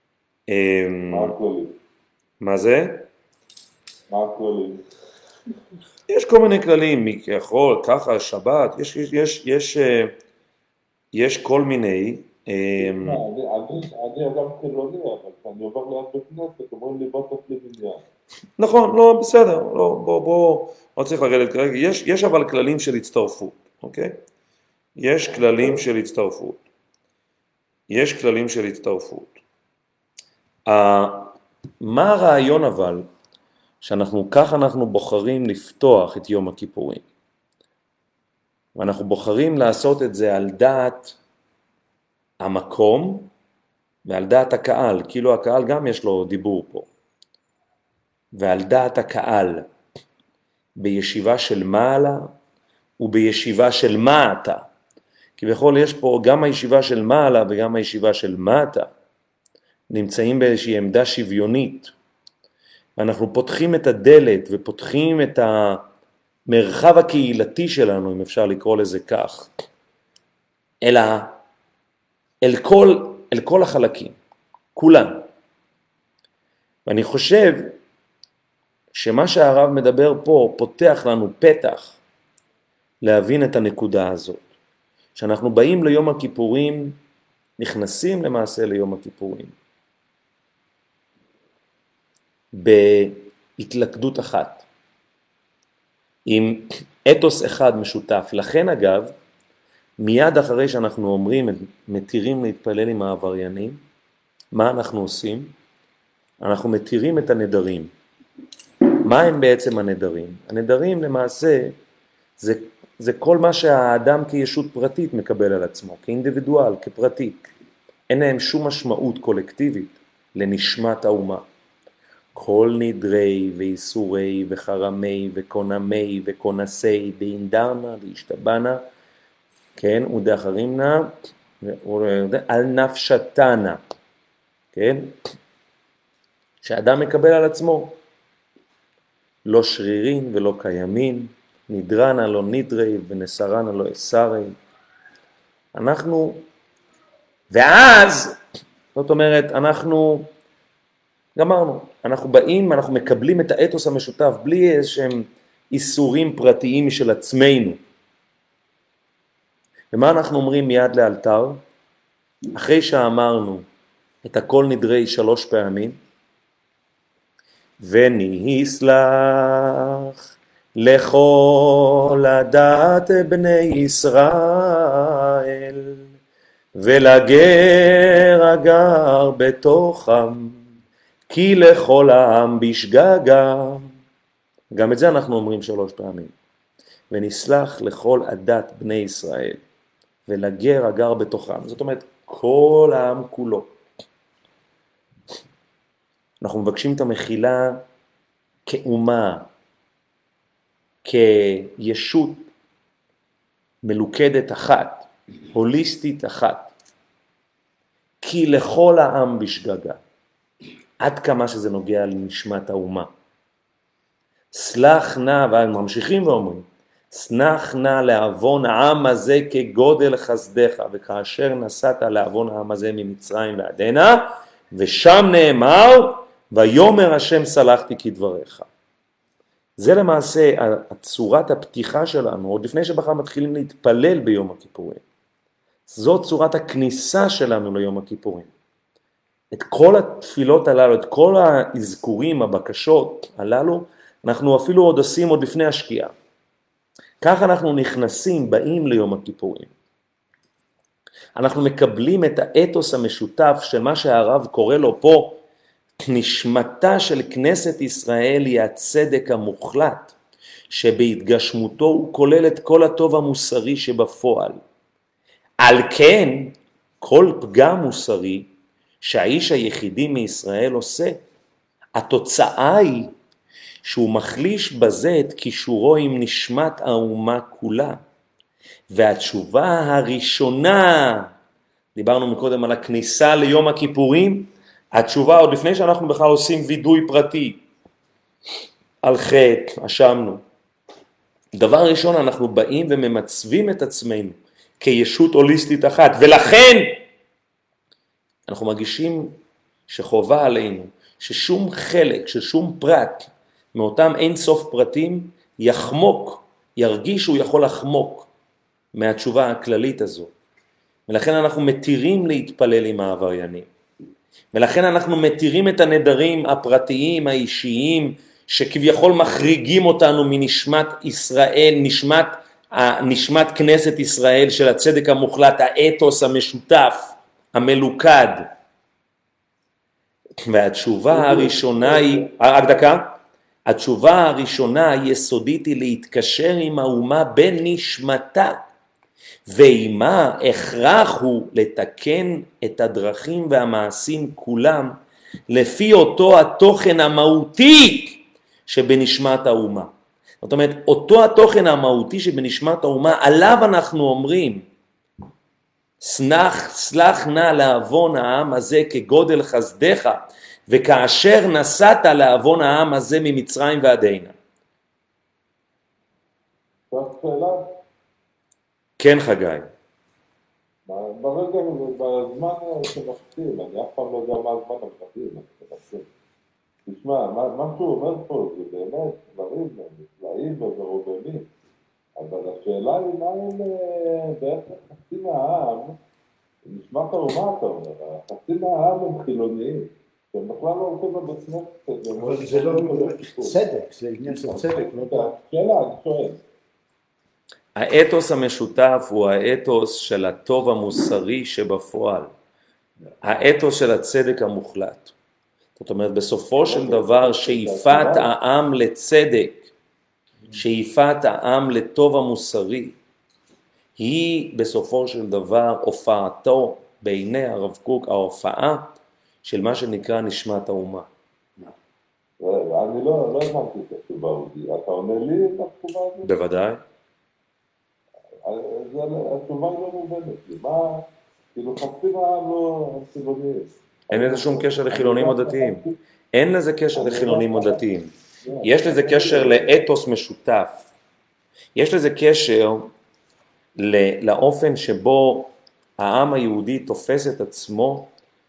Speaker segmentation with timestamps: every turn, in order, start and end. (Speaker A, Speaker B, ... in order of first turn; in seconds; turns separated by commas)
Speaker A: 0.5-1.3, Speaker B: 1.1-1.8, Speaker A: 2.4-3.1, Speaker B: 4.1-4.8, Speaker A: 6.1-10.1, Speaker A: 11.1-13.2, Speaker B: 12.8-18.0, Speaker A: 18.6-24.2, Speaker A: 25.0-26.6, Speaker B: 25.3-25.8, Speaker A: 27.9-29.4, Speaker A: 30.6-33.1, Speaker A: 33.8-37.0, Speaker A: 38.8-41.2, Speaker A: 42.4-43.3, Speaker A: 44.0-46.9, Speaker A: 48.3-49.7, Speaker A: 50.8-52.3, Speaker A: 53.0-54.7, Speaker A: 55.4-58.9, Speaker A: 59.9-61.9, Speaker A: 63.0-65.8, Speaker A: 66.5-69.5, Speaker A: 70.8-71.4, Speaker A: 72.4-74.2, Speaker A: 74.7-75.3, Speaker A: 76.8-77.8, Speaker A: 78.9-82.0, Speaker A: 83.0-84.5, Speaker A: 85.1-87.0, Speaker A: 87.6-89.5, Speaker A: 92.5-94.7, Speaker A: 96.2-99.1, Speaker A: 100.0-103.8, Speaker A: 104.5-105.5, Speaker A: 106.4-107.9, Speaker A: 109.0-111.8, Speaker A: 112.4-117.5, Speaker A: 118.1-121.4, Speaker A: 122.3-128.8, Speaker A: 129.8-133.8, Speaker A: 134.7-135.1, Speaker A: 136.6-138.0, Speaker A: 139.4-144.5, Speaker A: 145.7-146.4, Speaker A: 147.5-148.4, Speaker A: 148.9-150.3, Speaker A: 151.3-157.8, Speaker A: 159.9-161.6, Speaker A: 162.5-163.7, Speaker A: 164.2-166.0, Speaker A: 167.8-170.1, Speaker A: 170.8-176.1, Speaker A: 176.8-180.6, Speaker A: 181.3-183.9, Speaker A: 184.7-186.3, Speaker A: 187.1-189.6, Speaker A: 190.3-193.7, Speaker A: 196.4-197.8, Speaker A: 198.7-199.5, Speaker A: 201.0-202.5, Speaker A: 203.8-206.7, Speaker A: 208.2-210.0, Speaker A: 211.0-213.1, Speaker A: 214.5-228.7, Speaker A: 229.8-235.0, Speaker A: 235.9-238.5, Speaker A: 239.5-246.1, Speaker A: 247.2-249.7, Speaker A: 251.3-255.4, Speaker A: 256.0-260.1, Speaker A: 260.7-264.6, Speaker A: 265.6-268.5, Speaker A: 269.0-271.2, Speaker A: 271.9-273.1, Speaker A: 273.8-278.0, Speaker A: 278.9-281.3, Speaker A: 281.9-287.6, Speaker A: 289.0-290.4, Speaker A: 291.5-297.0, Speaker A: 298.5-299.4, Speaker A: 299.9-308.3, Speaker A: 308.9-310.3, Speaker A: 311.1-313.7, Speaker A: 314.5-328.4, Speaker A: 330.4-338.6, Speaker B: 331.1-332.3, Speaker A: 339.4-345.0, Speaker A: 345.5-349.9, Speaker A: 350.4-354.6, Speaker A: 356.0-364.4, Speaker B: 366.9-367.7, Speaker A: 369.0-369.7, Speaker B: 370.9-376.1, Speaker B: 376.9-381.5, Speaker B: 382.2-386.0, Speaker B: 386.6-393.6, Speaker C: 392.1-395.3, Speaker B: 394.3-396.4, Speaker A: 397.7-402.3, Speaker A: 403.2-405.1, Speaker A: 405.8-409.7, Speaker B: 406.6-408.3, Speaker A: 410.5-413.0, Speaker A: 414.0-421.1, Speaker B: 422.4-426.3, Speaker A: 426.2-426.8, Speaker B: 428.4-435.9, Speaker A: 434.1-435.8, Speaker A: 436.3-440.9, Speaker B: 436.9-437.8, Speaker B: 438.4-439.7, Speaker A: 441.7-442.9, Speaker A: 443.8-448.1